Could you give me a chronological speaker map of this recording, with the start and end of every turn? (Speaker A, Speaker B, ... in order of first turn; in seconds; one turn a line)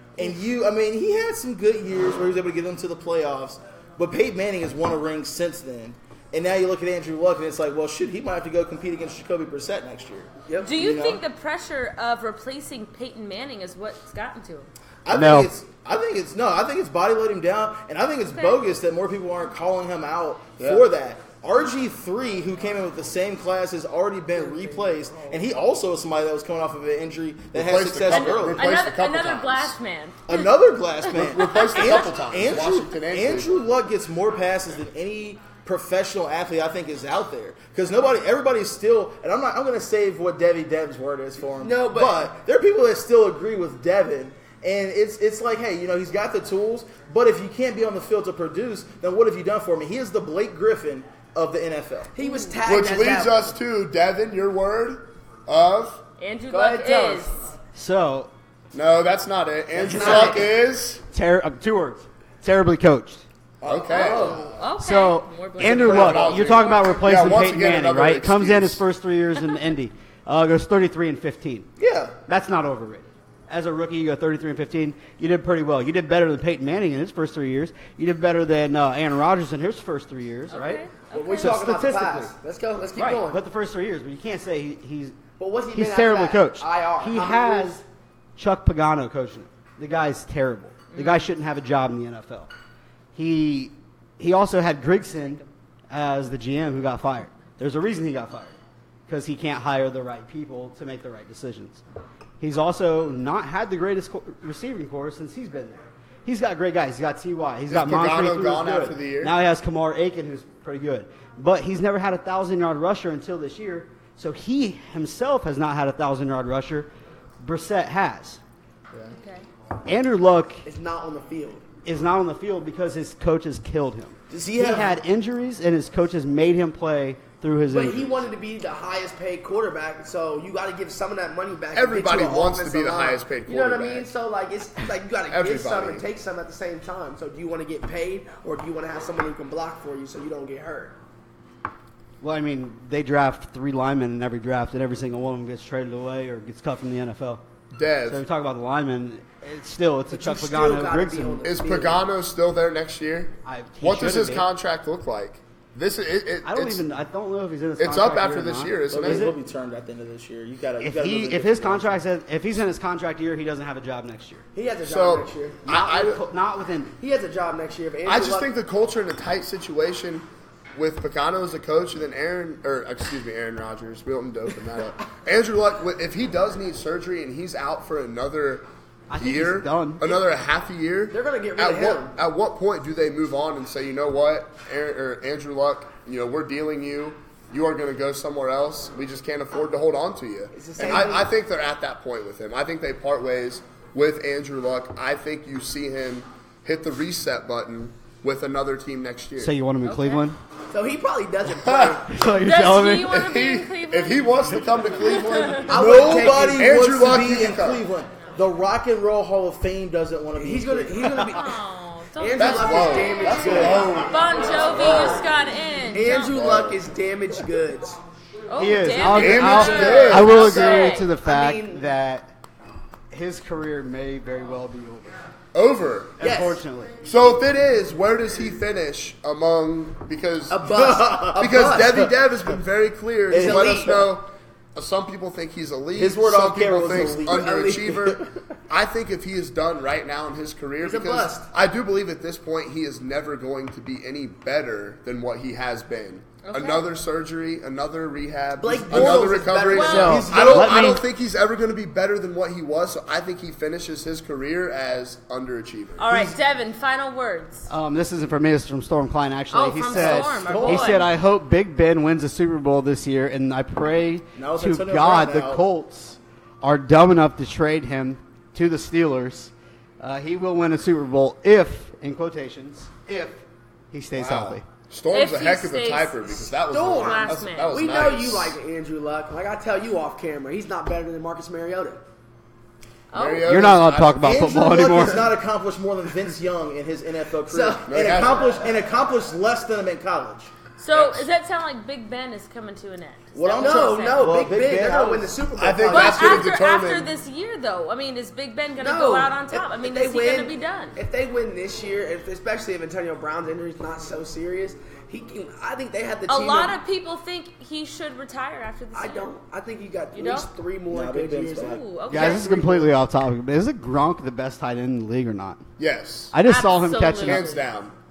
Speaker A: 0.1-11.2
Speaker B: 10.6-14.7
Speaker A: 15.0-28.7
Speaker C: 15.1-15.5
Speaker B: 18.3-18.6
Speaker D: 20.6-20.9
Speaker E: 24.4-25.4
Speaker D: 27.5-29.8
Speaker B: 28.1-32.0
Speaker A: 30.3-52.1
Speaker D: 31.1-33.6
Speaker E: 41.5-42.3
Speaker E: 52.1-53.5
Speaker B: 52.2-52.6
Speaker D: 52.6-56.0
Speaker B: 56.2-57.3
Speaker E: 56.5-57.3
Speaker C: 57.7-58.3
Speaker D: 58.7-61.0
Speaker E: 59.8-60.5
Speaker C: 61.1-63.2
Speaker A: 63.6-64.4
Speaker D: 63.6-64.5
Speaker E: 63.9-64.4
Speaker B: 64.3-66.5
Speaker C: 64.8-71.7
Speaker D: 65.7-68.8
Speaker A: 71.8-72.2
Speaker C: 72.3-80.8
Speaker B: 80.5-81.6
Speaker E: 81.1-83.4
Speaker C: 81.4-82.3
Speaker C: 82.9-85.2
Speaker E: 85.4-87.8
Speaker C: 85.7-87.8
Speaker C: 88.3-92.5
Speaker B: 90.9-91.3
Speaker C: 93.1-98.5
Speaker C: 99.1-101.8
Speaker C: 102.4-118.4
Speaker D: 107.7-109.3
Speaker B: 119.1-119.5
Speaker C: 119.8-120.6
Speaker E: 120.6-121.6
Speaker C: 121.8-128.2
Speaker A: 124.3-125.0
Speaker E: 127.7-141.0
Speaker D: 131.7-134.1
Speaker D: 135.3-136.0
Speaker C: 142.2-147.4
Speaker D: 147.7-148.2
Speaker C: 148.1-151.5
Speaker E: 150.1-152.0
Speaker D: 151.4-156.8
Speaker C: 153.4-154.5
Speaker C: 156.4-159.3
Speaker D: 157.8-159.3
Speaker A: 158.9-162.0
Speaker C: 160.8-164.4
Speaker E: 164.5-165.7
Speaker D: 164.8-166.2
Speaker C: 165.7-166.9
Speaker E: 167.0-168.5
Speaker D: 168.1-199.5
Speaker C: 179.1-180.1
Speaker E: 181.1-182.2
Speaker E: 190.5-191.3
Speaker C: 199.4-200.4
Speaker B: 199.8-200.2
Speaker E: 200.7-202.2
Speaker D: 201.6-202.0
Speaker C: 202.1-203.2
Speaker B: 202.4-205.7
Speaker D: 203.0-207.9
Speaker E: 205.7-206.7
Speaker A: 205.7-211.2
Speaker E: 210.3-211.5
Speaker B: 211.3-216.4
Speaker E: 212.2-215.2
Speaker D: 212.3-215.3
Speaker A: 213.2-213.8
Speaker E: 215.9-218.0
Speaker D: 216.1-216.8
Speaker B: 218.5-221.1
Speaker C: 218.6-222.3
Speaker D: 219.1-220.5
Speaker E: 219.4-221.8
Speaker C: 223.1-225.1
Speaker D: 225.5-226.2
Speaker C: 226.2-227.0
Speaker E: 226.2-226.6
Speaker D: 227.0-230.7
Speaker E: 230.5-232.0
Speaker A: 230.7-231.3
Speaker D: 231.3-256.1
Speaker A: 233.3-234.1
Speaker E: 233.3-234.0
Speaker A: 235.9-237.5
Speaker E: 237.2-238.2
Speaker E: 240.8-241.5
Speaker B: 246.4-246.8
Speaker E: 248.6-250.4
Speaker A: 248.8-251.0
Speaker B: 249.7-250.1
Speaker C: 249.9-251.0
Speaker B: 256.0-257.7
Speaker A: 256.1-256.3
Speaker C: 257.7-274.6
Speaker B: 259.5-261.1
Speaker A: 259.9-261.0
Speaker A: 264.4-265.6
Speaker D: 274.1-278.6
Speaker B: 275.1-276.3
Speaker E: 276.7-282.0
Speaker B: 277.0-277.7
Speaker B: 283.1-283.5
Speaker D: 283.1-284.4
Speaker C: 283.4-285.3
Speaker A: 284.2-290.5
Speaker E: 287.5-288.1
Speaker D: 287.9-288.6
Speaker B: 290.8-294.3
Speaker D: 290.9-291.3
Speaker A: 293.3-295.4
Speaker E: 293.6-296.5
Speaker D: 295.6-297.1
Speaker B: 295.9-300.9
Speaker E: 298.8-306.8
Speaker B: 306.3-309.3
Speaker E: 308.9-312.7
Speaker B: 310.1-310.5
Speaker A: 310.9-311.8
Speaker B: 311.6-312.8
Speaker C: 312.1-315.6
Speaker D: 315.8-316.4
Speaker C: 316.3-317.5
Speaker B: 316.4-317.6
Speaker D: 317.2-317.9